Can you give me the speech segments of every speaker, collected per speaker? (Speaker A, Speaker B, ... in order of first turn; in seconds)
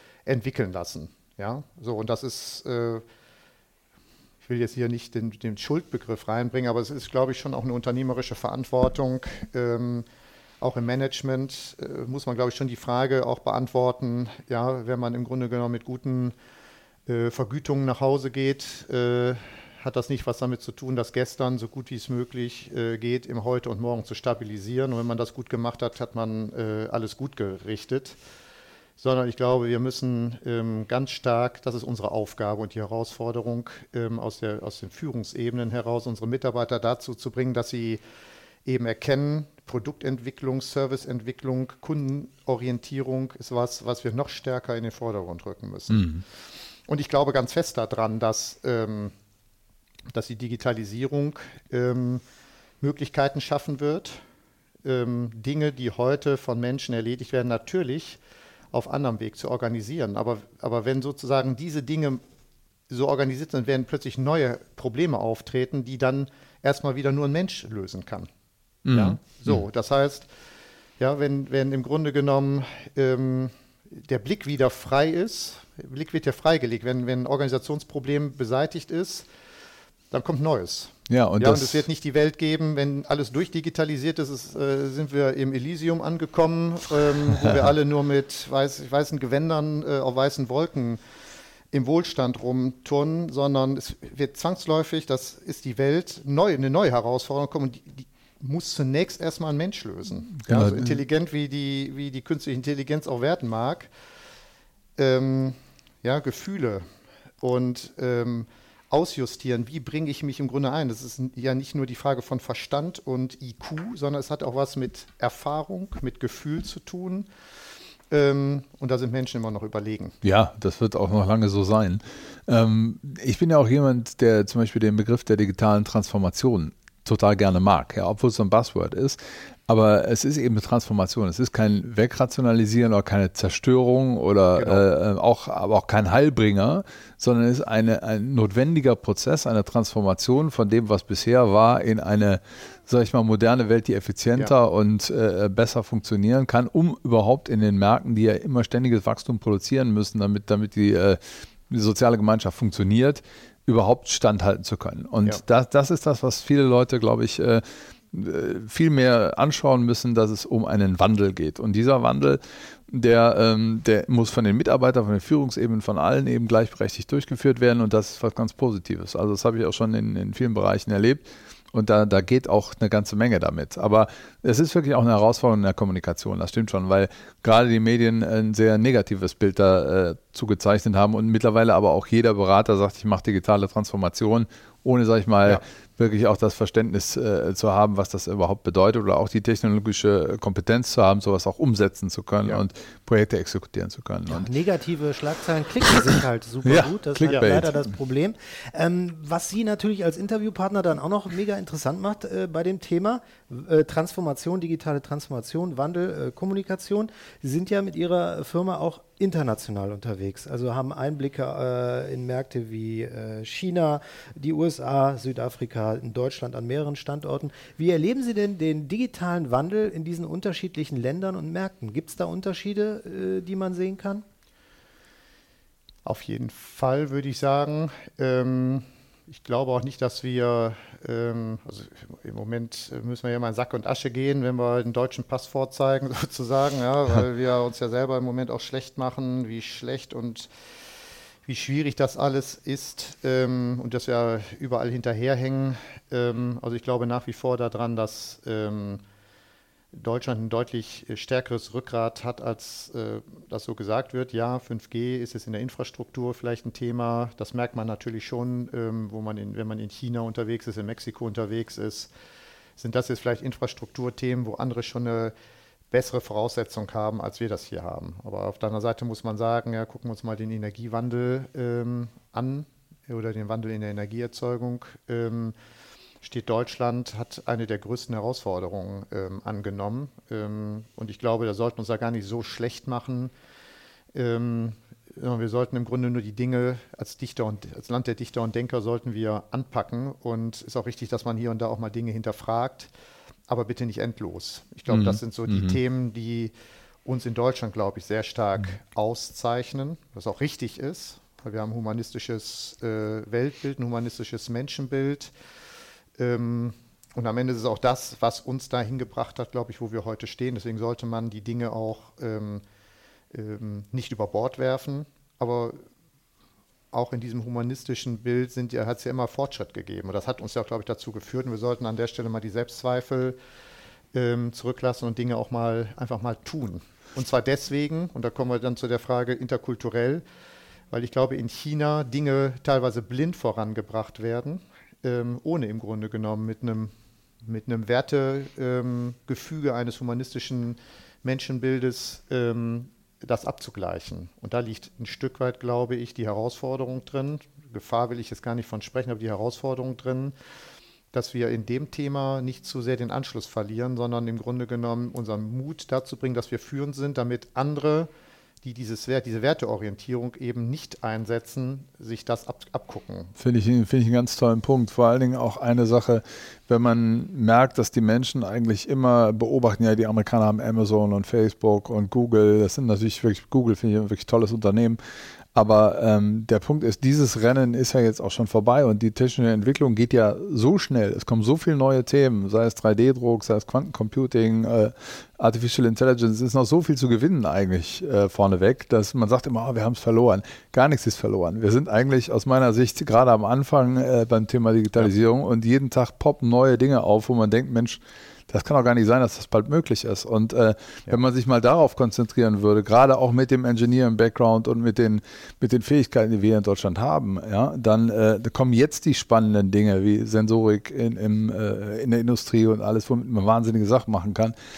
Speaker A: 0.2-3.0, 4.4-10.1, 10.6-16.3, 17.1-28.2, 29.0-38.0, 38.6-46.2, 46.9-49.1, 50.1-52.2, 52.8-54.2, 54.8-58.2, 58.7-62.2, 62.9-68.3, 68.9-70.3, 71.0-79.3, 80.1-91.0, 91.7-103.9, 105.0-106.8, 107.4-117.3, 118.1-120.2, 134.6-134.8, 197.3-197.5, 226.0-240.5, 241.4-249.0, 249.9-262.1, 262.8-265.3, 265.9-275.5, 276.2-283.3, 284.1-292.9, 293.5-296.5, 297.0-305.3, 306.1-312.6, 313.3-315.8, 316.9-323.4, 324.1-330.2, 330.9-350.3, 351.1-358.1, 358.6-363.3
Speaker B: 45.9-46.2, 68.8-69.3, 81.1-81.8, 100.4-101.0, 120.2-194.5, 196.6-197.8, 294.9-295.8, 363.4-375.0, 375.5-414.5
Speaker C: 194.3-224.2